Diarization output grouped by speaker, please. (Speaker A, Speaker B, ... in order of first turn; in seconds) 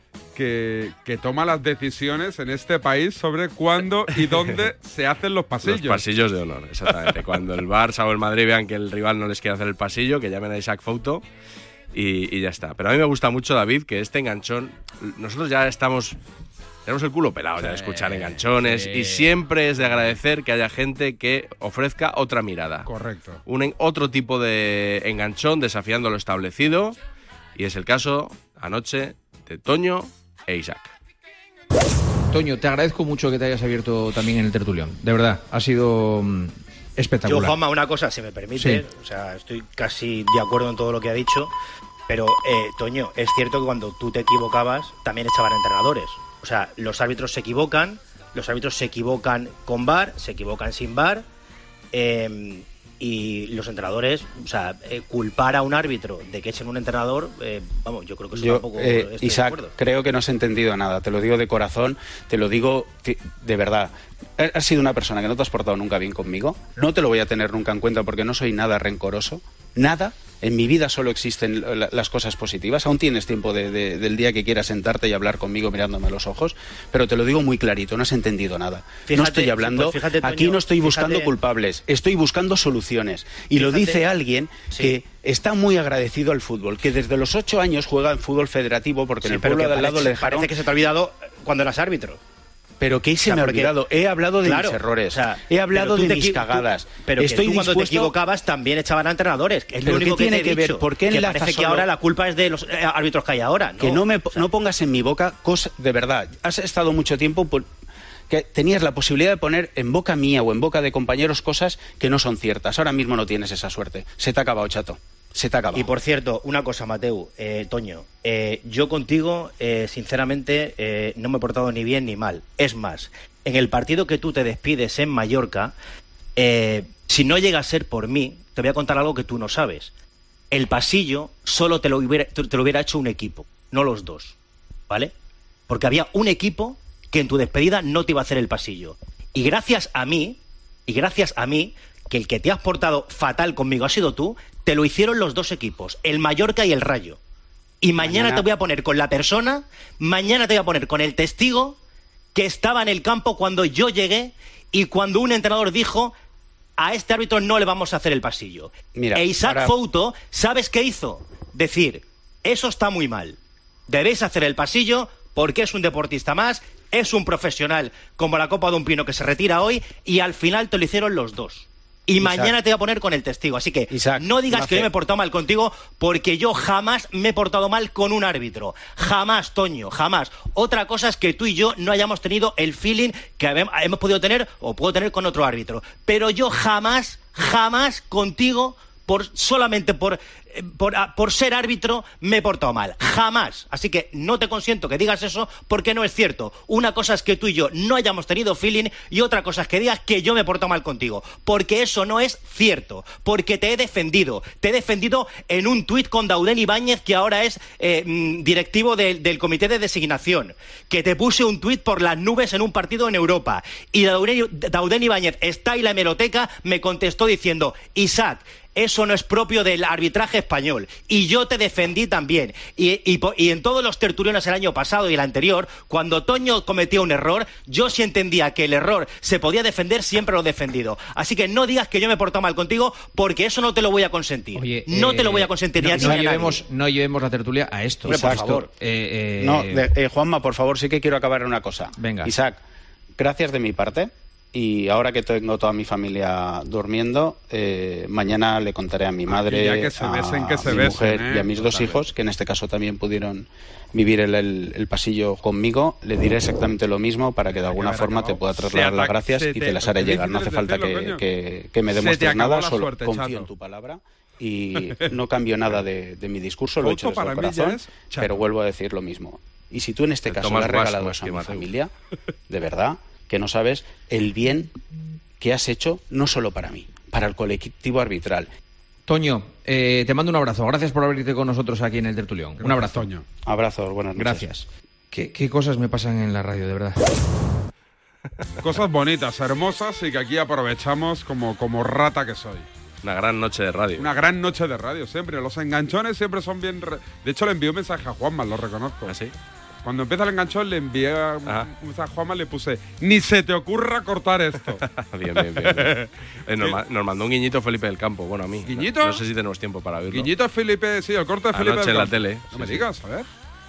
Speaker A: 0.3-6.0, 22.9-23.4, 249.3-251.7, 257.5-261.2, 261.9-263.5, 266.8-268.5, 282.6-283.3, 288.6-292.7, 294.0-299.2, 299.9-304.8, 305.4-306.1, 308.7-309.2, 310.1-313.3
Speaker B: 4.2-4.7, 5.6-11.2, 11.9-16.2, 16.9-22.9, 23.5-27.0, 27.6-30.9, 270.3-271.7, 293.0-294.1, 299.1-299.3, 304.8-310.3, 311.5-312.9
Speaker C: 17.9-19.2, 58.3-90.7, 92.8-98.2, 99.8-101.9, 103.8-107.7, 108.3-115.9, 159.0-159.7, 238.1-238.7, 239.4-242.6, 243.2-271.9, 272.5-274.7, 275.4-278.5, 283.4-284.5
Speaker D: 32.3-37.5, 38.6-38.8, 172.2-172.5, 173.9-174.9, 234.6-239.9, 242.0-242.4, 251.6-252.0, 279.1-283.1, 284.2-287.0
Speaker E: 37.2-41.5, 42.1-51.2, 51.9-59.8, 79.1-81.3, 83.5-84.0, 89.2-92.2, 93.2-93.7, 94.4-104.5, 115.7-125.8, 126.4-129.9, 130.5-134.3, 135.7-147.2, 147.8-151.8, 152.3-156.1, 156.8-163.4, 163.9-236.6